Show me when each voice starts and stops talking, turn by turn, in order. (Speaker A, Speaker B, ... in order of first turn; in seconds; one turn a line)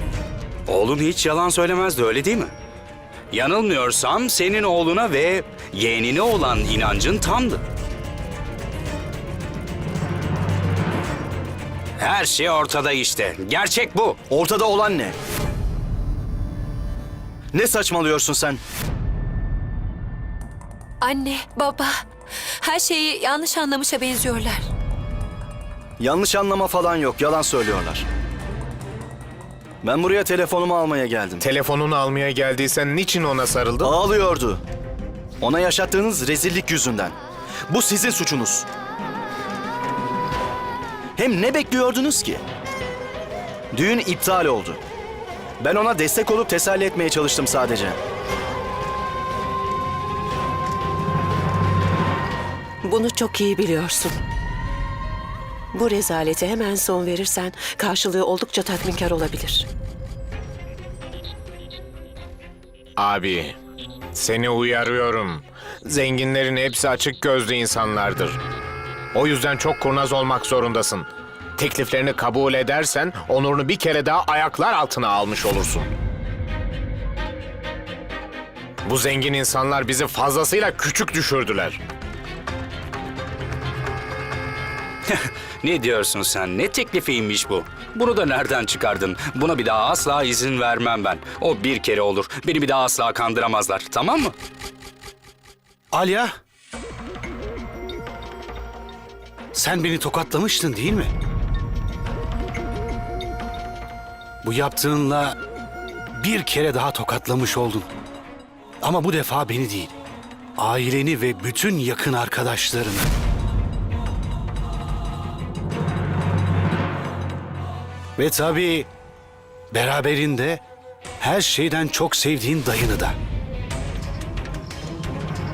Speaker A: 0.7-2.5
Speaker A: 3.3-7.6
Speaker A: 12.0-14.2
Speaker B: 14.3-15.2
Speaker B: 17.5-18.6
Speaker C: 21.0-22.0
Speaker C: 22.6-24.6
Speaker B: 26.0-28.1
Speaker B: 29.8-31.4
Speaker D: 31.4-34.0
Speaker B: 33.8-34.6
Speaker B: 35.4-37.1
Speaker B: 37.7-38.7
Speaker B: 41.2-42.4
Speaker B: 43.7-44.8
Speaker B: 45.6-48.0
Speaker E: 52.8-54.2
Speaker E: 55.7-59.7
Speaker D: 63.0-63.6
Speaker D: 64.1-68.4
Speaker D: 69.1-75.9
Speaker D: 78.8-81.8
Speaker A: 85.1-94.3
Speaker F: 95.9-96.3
Speaker F: 99.5-101.1
Speaker F: 104.4-105.4
Speaker F: 106.1-107.9
Speaker F: 108.8-109.9
Speaker F: 110.6-113.1
Speaker F: 118.2-118.9
Speaker F: 119.7-120.6
Speaker F: 121.2-123.2